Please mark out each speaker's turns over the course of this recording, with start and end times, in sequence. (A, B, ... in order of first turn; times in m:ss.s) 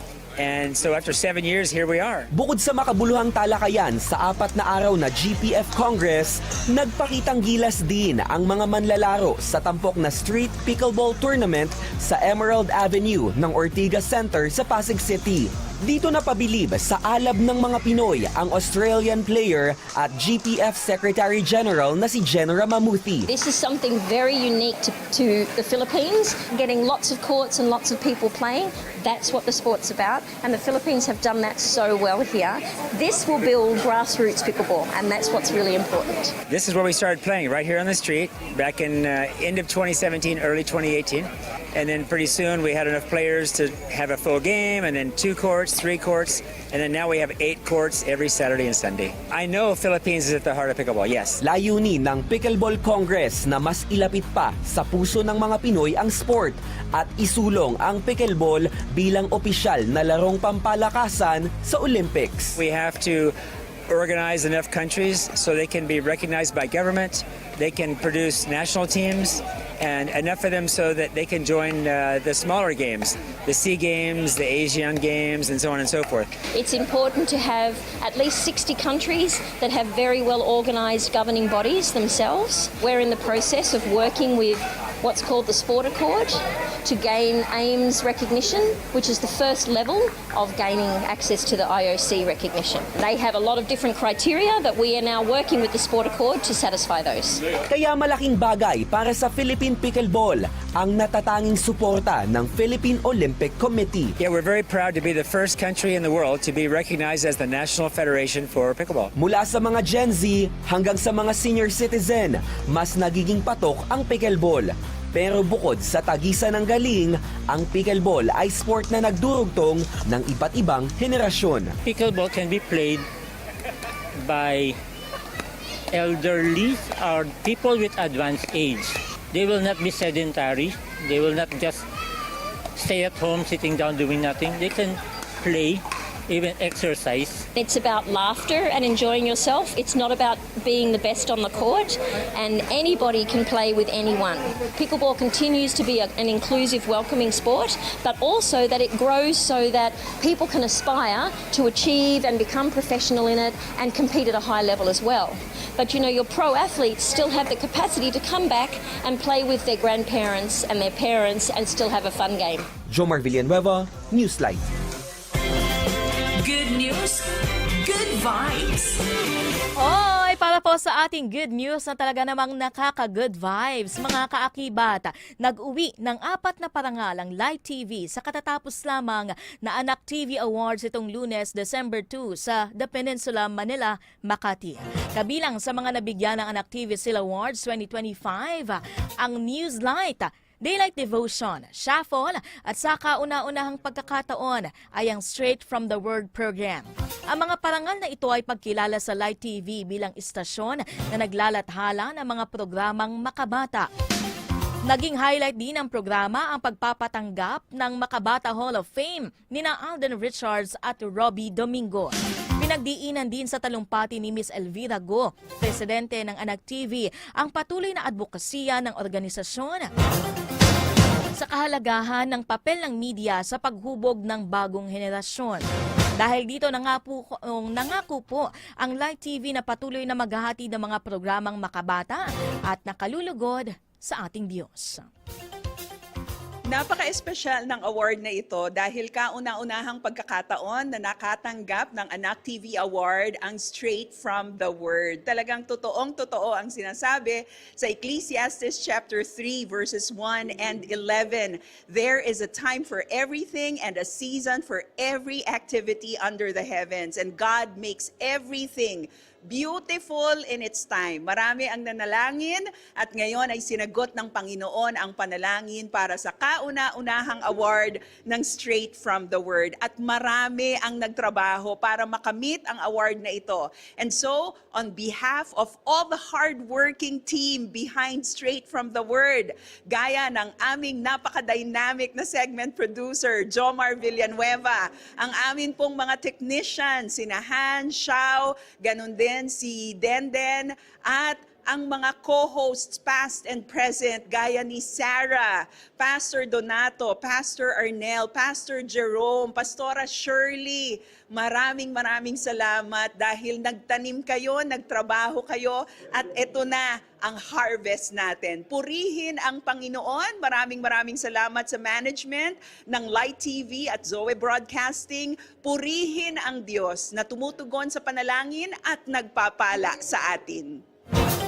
0:00.4-0:02.3 A
0:02.3-0:23.3 B
0:23.3-0:36.3 C
0:36.5-0:51.4 A
0:51.4-1:02.6 B
1:02.6-1:03.4 A
1:03.9-1:16.3 A
1:16.5-1:37.4 C
1:37.7-1:44.2 B
1:44.2-1:49.1 A
1:49.2-2:01.7 B
2:01.8-2:03.1 D
2:04.2-2:04.8 D
2:05.9-2:11.8 D
2:12.8-2:17.5 D
2:17.5-2:42.7 C
2:42.9-2:44.6 B
2:46.4-2:47.2 E
2:47.8-2:49.0 E
2:49.8-3:23.9 F
3:24.9-3:39.9 F
3:41.4-3:45.6 F
3:46.2-3:55.1 F
3:56.7-5:20.8 G